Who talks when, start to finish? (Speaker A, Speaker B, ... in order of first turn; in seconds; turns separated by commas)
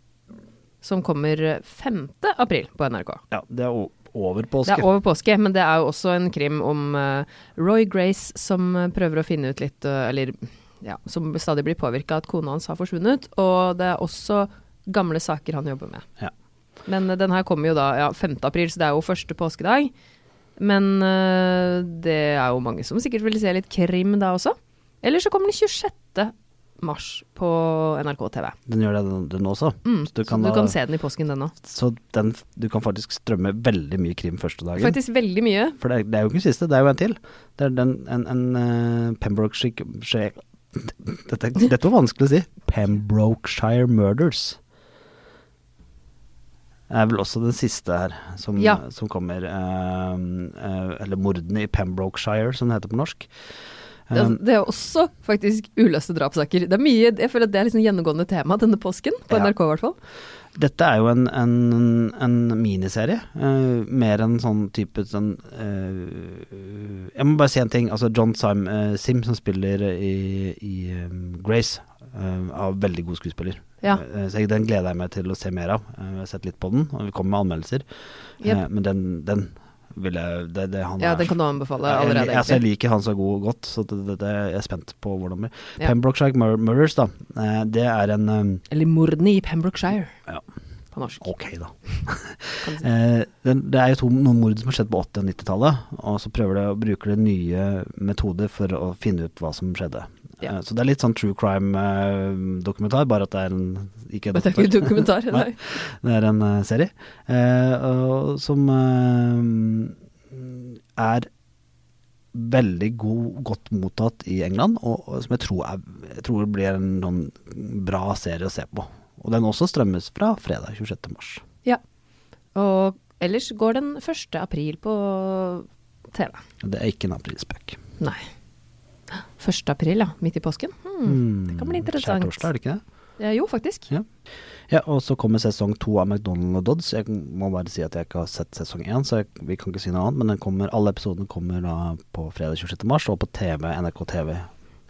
Speaker A: 0.8-3.2, Speaker B: 3.3-4.9, Speaker A: 4.7-16.1, Speaker A: 16.9-19.9, Speaker A: 20.6-28.6, Speaker B: 28.7-30.8, Speaker A: 29.8-31.5, Speaker B: 31.6-35.0, Speaker A: 34.8-35.8, Speaker B: 35.8-44.6, Speaker B: 46.9-53.3, Speaker A: 48.6-48.8, Speaker B: 54.1-54.4, Speaker A: 54.1-60.0, Speaker B: 60.5-77.8, Speaker B: 78.4-88.6, Speaker A: 81.0-82.6, Speaker A: 88.7-90.1, Speaker A: 90.9-91.2, Speaker B: 91.2-111.3, Speaker A: 104.3-105.6, Speaker B: 112.3-121.4, Speaker A: 122.5-126.4, Speaker B: 126.6-127.8, Speaker A: 128.0-128.2, Speaker A: 129.1-132.5, Speaker B: 131.0-132.8, Speaker A: 133.2-133.9, Speaker B: 134.7-144.5